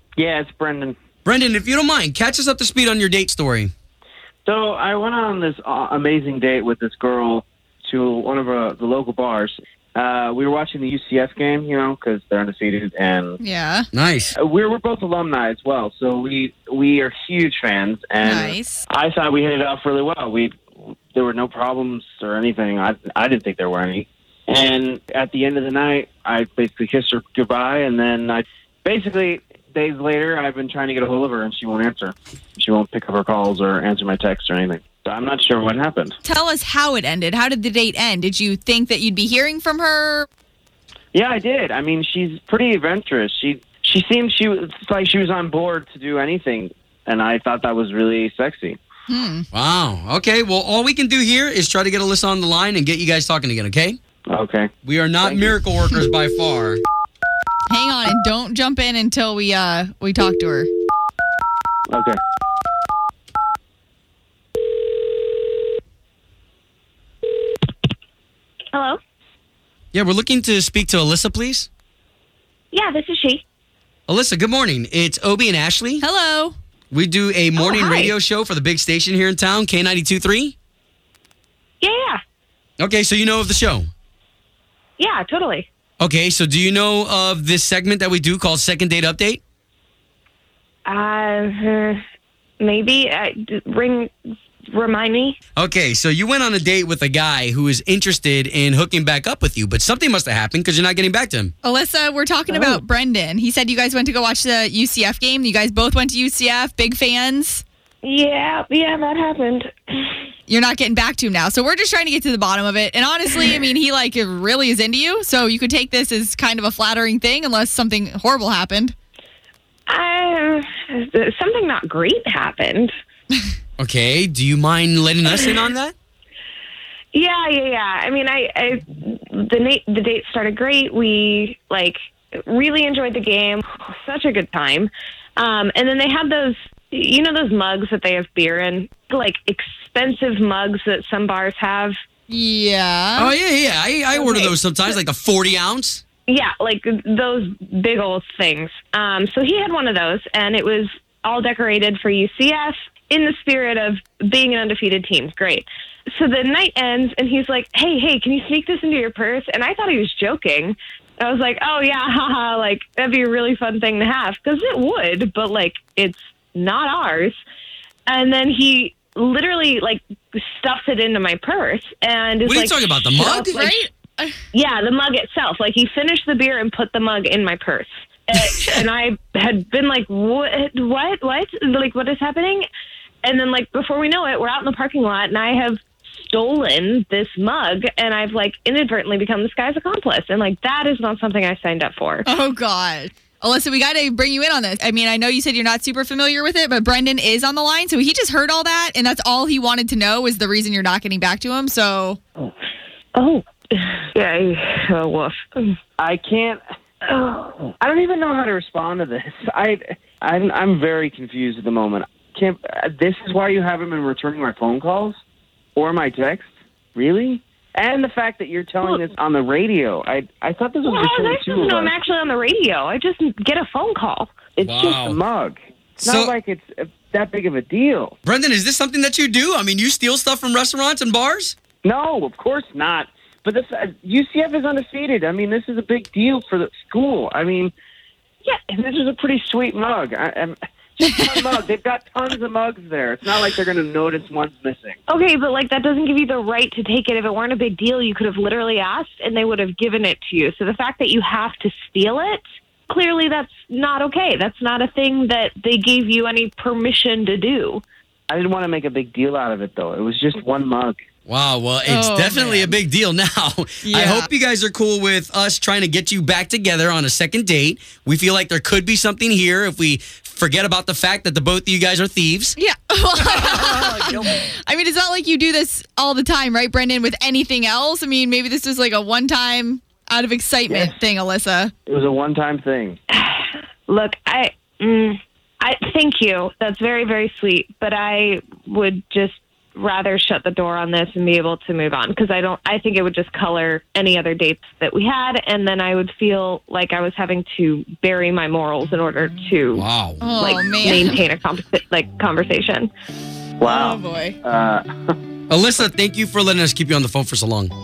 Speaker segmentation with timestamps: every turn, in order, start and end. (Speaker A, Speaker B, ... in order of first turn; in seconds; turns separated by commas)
Speaker A: 0.2-0.9, Speaker B: 1.2-3.7, Speaker A: 4.5-13.4, Speaker C: 13.4-13.9, Speaker B: 13.9-14.4, Speaker A: 14.3-20.6, Speaker C: 18.2-18.8, Speaker A: 21.1-36.2, Speaker C: 36.2-40.2, Speaker A: 41.1-48.8, Speaker C: 49.1-49.5, Speaker B: 49.5-54.0, Speaker A: 54.3-55.6, Speaker B: 54.8-56.8, Speaker C: 57.7-60.7, Speaker A: 61.9-62.2, Speaker D: 68.7-69.0, Speaker B: 69.9-71.7, Speaker D: 72.7-73.4, Speaker B: 74.1-76.0, Speaker C: 76.0-76.5, Speaker B: 76.9-80.5, Speaker D: 77.6-78.1, Speaker D: 81.8-82.2, Speaker B: 82.8-83.9, Speaker D: 85.0-85.7, Speaker B: 86.0-89.4, Speaker D: 90.9-92.0, Speaker D: 92.6-94.1, Speaker D: 94.7-95.4, Speaker B: 95.6-101.5, Speaker C: 101.6-107.6, Speaker D: 102.5-102.8, Speaker D: 108.0-110.2, Speaker C: 110.5-118.9, Speaker D: 119.9-122.9, Speaker B: 123.8-125.9, Speaker D: 127.1-141.9, Speaker C: 142.3-143.3, Speaker B: 143.2-146.0, Speaker D: 144.1-144.9, Speaker D: 146.3-167.4, Speaker D: 168.1-173.8, Speaker B: 172.4-173.6, Speaker C: 173.5-174.4, Speaker D: 174.5-182.7, Speaker D: 183.2-192.2, Speaker C: 192.2-202.2, Speaker D: 203.2-205.8, Speaker A: 206.0-206.6, Speaker D: 207.1-207.6, Speaker A: 207.7-215.2, Speaker A: 215.8-221.9, Speaker D: 220.8-224.3, Speaker A: 224.6-228.1, Speaker B: 224.6-225.2, Speaker B: 226.0-226.3, Speaker B: 228.2-231.6, Speaker A: 231.8-237.7, Speaker A: 238.7-245.0, Speaker D: 245.1-257.8, Speaker A: 258.3-261.0, Speaker B: 261.2-272.6, Speaker C: 261.9-262.8, Speaker C: 263.8-264.3, Speaker C: 272.6-281.7, Speaker B: 273.4-273.9, Speaker A: 280.7-280.9, Speaker A: 281.9-283.0, Speaker D: 283.1-302.9, Speaker B: 299.7-300.2, Speaker C: 300.2-301.2, Speaker A: 303.6-304.9, Speaker C: 303.6-304.4, Speaker B: 305.5-307.7